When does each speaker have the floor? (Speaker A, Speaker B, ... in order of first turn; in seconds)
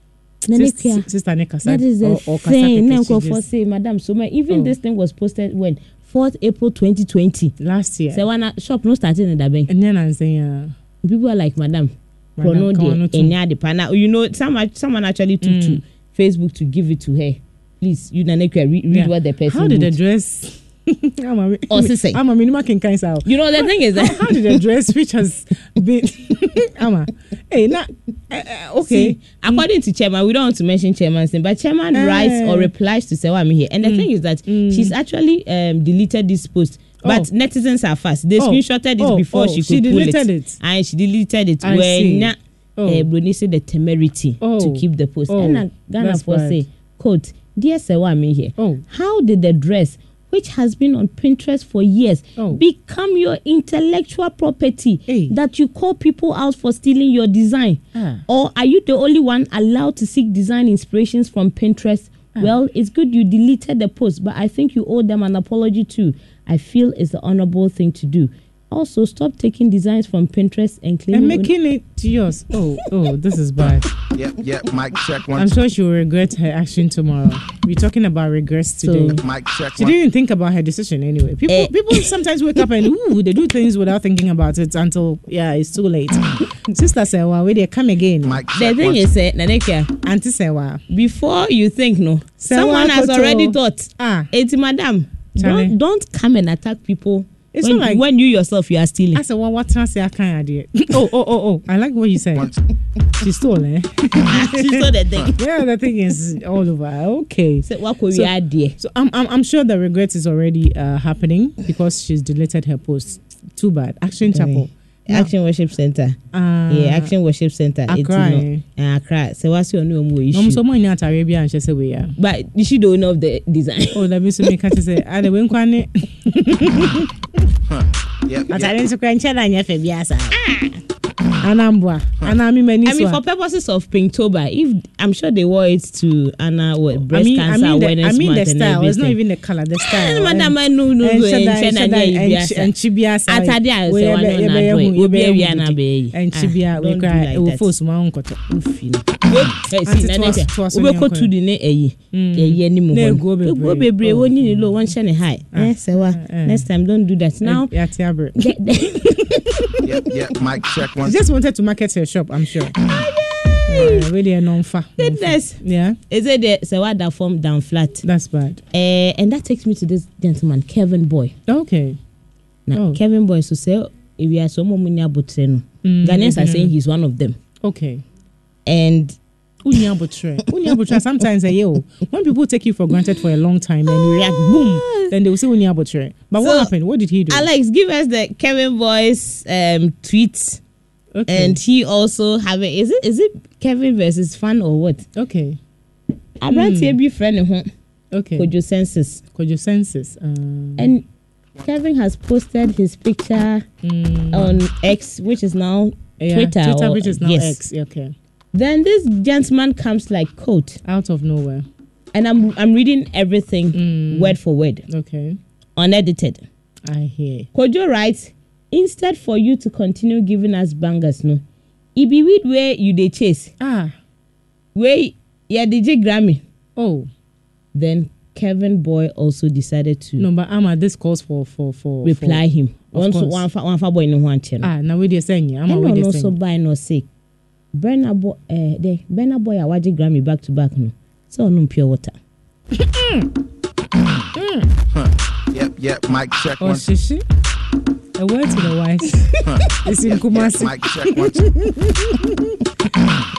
Speaker A: 0.5-1.1, 1.6-7.5, 8.1-9.7, 11.0-19.9, 21.7-22.2, 23.2-24.6, 28.8-71.5, 78.8-79.2, 81.5-82.1, 88.5-89.9, 90.9-99.2, 104.3-105.4, 107.7-108.8, 114.3-116.2, 116.7-120.6, 122.2-124.1, 130.3-130.8, 132.8-139.2, 139.8-142.7, 143.3-147.7, 149.3-157.7, 158.4-159.4, 162.8-164.1, 165.0-168.0, 168.7-171.3, 172.7-177.4, 178.7-179.2, 183.9-185.1, 186.4-186.7, 187.3-190.6, 191.3-195.1, 196.4-197.7, 198.4-199.2, 200.8-201.1, 201.6-203.7, 204.3-207.6, 208.5-210.8, 212.1-214.8, 215.8-216.4, 217.5-221.4, 222.0-223.5, 224.8-226.4, 227.7-230.3, 232.1-234.7, 235.7-237.1, 237.7-242.2
Speaker B: 0.5-3.4, 7.6-8.2, 9.7-10.7, 12.4-13.3, 15.4-15.8, 18.9-29.7, 31.9-32.7, 33.8-34.9, 37.0-37.3, 38.4-40.6, 41.6-43.1, 44.4-46.6, 48.6-48.8, 55.1-55.3, 58.0-58.2, 71.1-73.9, 75.4-79.2, 79.8-88.4, 90.0-90.8, 92.4-94.3, 95.4-95.7, 97.5-98.0, 99.2-102.5, 103.2-104.8, 105.4-115.3, 116.3-117.1, 117.9-118.6, 120.3-122.1, 123.9-127.1, 128.5-130.4, 131.4-133.2, 137.1-149.1, 149.8-151.3, 152.1-154.9, 155.5-156.6, 157.4-158.5, 161.1-162.8, 163.7-166.0, 168.0-168.6, 171.5-172.0, 172.8-173.0, 175.8-176.7, 177.6-178.0, 179.7-187.5, 191.2-191.6, 195.2-195.6, 196.5-197.0, 198.1-198.5, 199.3-200.9, 203.8-204.6, 206.2-208.1, 210.8-211.7, 213.7-214.4, 214.9-215.4, 216.9-217.5, 223.6-223.9, 226.8-227.1, 230.2-232.4, 232.9-233.4, 234.6-236.3, 242.8-243.3, 244.3-244.7, 246.6-247.2, 248.2-249.2, 249.8-252.6
Speaker C: 74.1-75.6, 79.2-80.0, 88.2-89.1, 127.7-128.7, 159.8-161.2, 244.9-246.9, 249.5-251.5